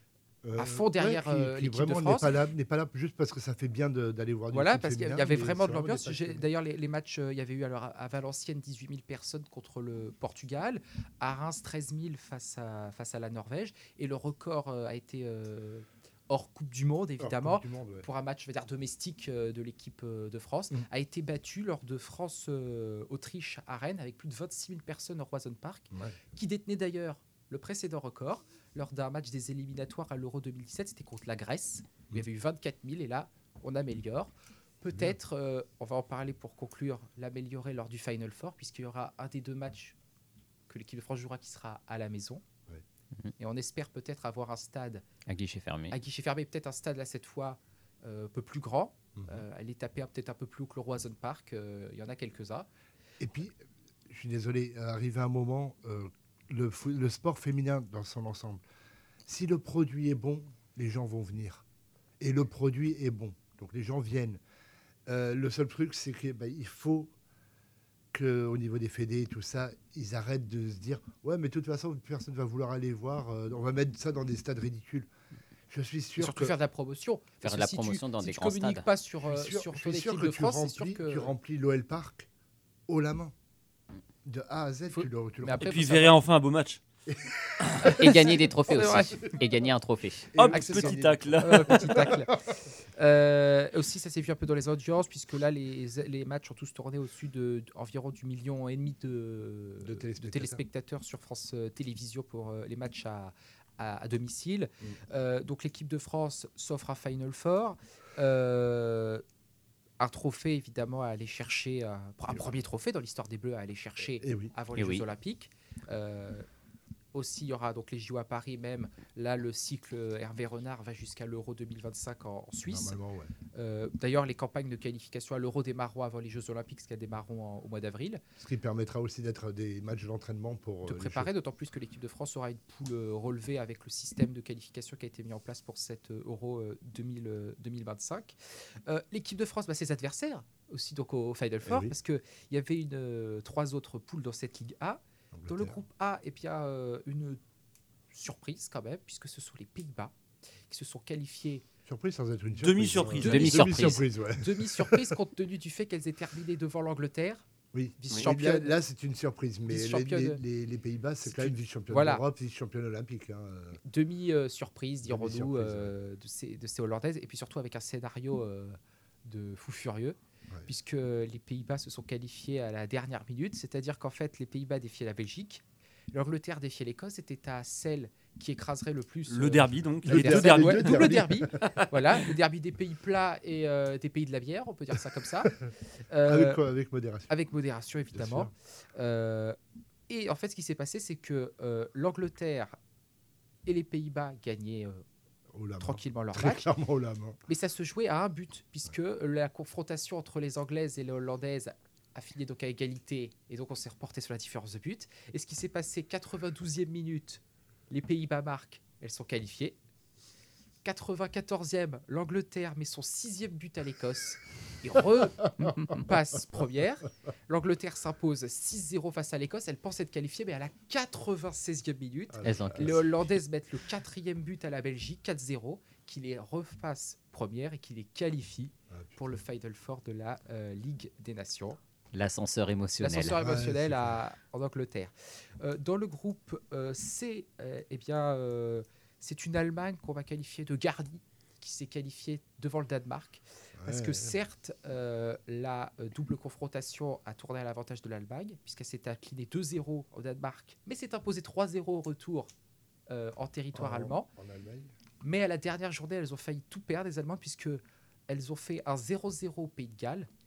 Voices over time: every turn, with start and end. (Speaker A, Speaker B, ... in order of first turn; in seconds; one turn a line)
Speaker A: 0.4-6.5
Speaker B: 0.6-2.3
Speaker B: 4.5-39.9
Speaker A: 17.2-18.1
Speaker A: 25.9-26.2
Speaker B: 40.7-42.4
Speaker B: 43.4-45.0
Speaker C: 45.3-45.9
Speaker B: 45.9-52.7
Speaker A: 49.1-49.4
Speaker A: 53.2-53.6
Speaker A: 54.1-58.6
Speaker A: 59.2-61.6
Speaker A: 62.2-64.4
Speaker A: 65.1-67.1
Speaker A: 68.1-75.1
Speaker A: 75.7-76.6
Speaker B: 76.2-81.3
Speaker C: 77.4-78.8
Speaker A: 79.2-82.3
Speaker A: 82.9-83.3
Speaker A: 84.2-85.9
Speaker B: 84.9-86.2
Speaker D: 85.6-86.8
Speaker A: 87.1-88.2
Speaker B: 87.8-88.1
Speaker C: 88.0-90.2
Speaker B: 88.7-89.1
Speaker A: 88.8-89.3
Speaker A: 90.3-92.5
Speaker D: 90.3-91.9
Speaker B: 90.5-92.4
Speaker B: 92.9-109.2
Speaker A: 99.8-100.6
Speaker B: 110.0-116.5
Speaker A: 114.2-114.5
Speaker C: 114.8-115.0
Speaker B: 117.1-123.0
Speaker A: 122.7-123.3
Speaker B: 123.5-128.2
Speaker A: 128.4-131.3
Speaker B: 130.8-147.4
Speaker A: 141.7-141.9
Speaker A: 145.3-145.8
Speaker B: 148.1-150.1
Speaker B: 150.7-151.7
Speaker A: 151.8-155.2
Speaker D: 152.6-153.8
Speaker C: 153.2-154.1
Speaker B: 153.5-157.4
Speaker A: 157.7-163.8
Speaker B: 158.0-158.7
Speaker B: 159.7-160.4
Speaker B: 161.2-162.2
Speaker B: 163.8-185.6
Speaker A: 165.1-165.9
Speaker D: 179.3-181.2
Speaker A: 180.1-181.6
Speaker A: 185.4-187.3
Speaker B: 186.1-186.6
Speaker B: 187.3-189.6
Speaker A: 188.1-188.5
Speaker B: 190.1-192.8
Speaker B: 193.7-195.0
Speaker A: 195.5-197.4
Speaker B: 195.8-196.7
Speaker B: 197.5-209.8
Speaker B: 210.8-231.8
Speaker A: 222.3-223.3
Speaker C: 222.4-223.0
Speaker A: 228.9-229.3
Speaker C: 232.1-233.3
Speaker B: 233.0-252.5
Speaker A: 233.4-234.2
Speaker A: 243.8-244.4
Speaker B: 253.1-254.3
Speaker A: 253.7-254.9
Speaker B: 255.2-260.3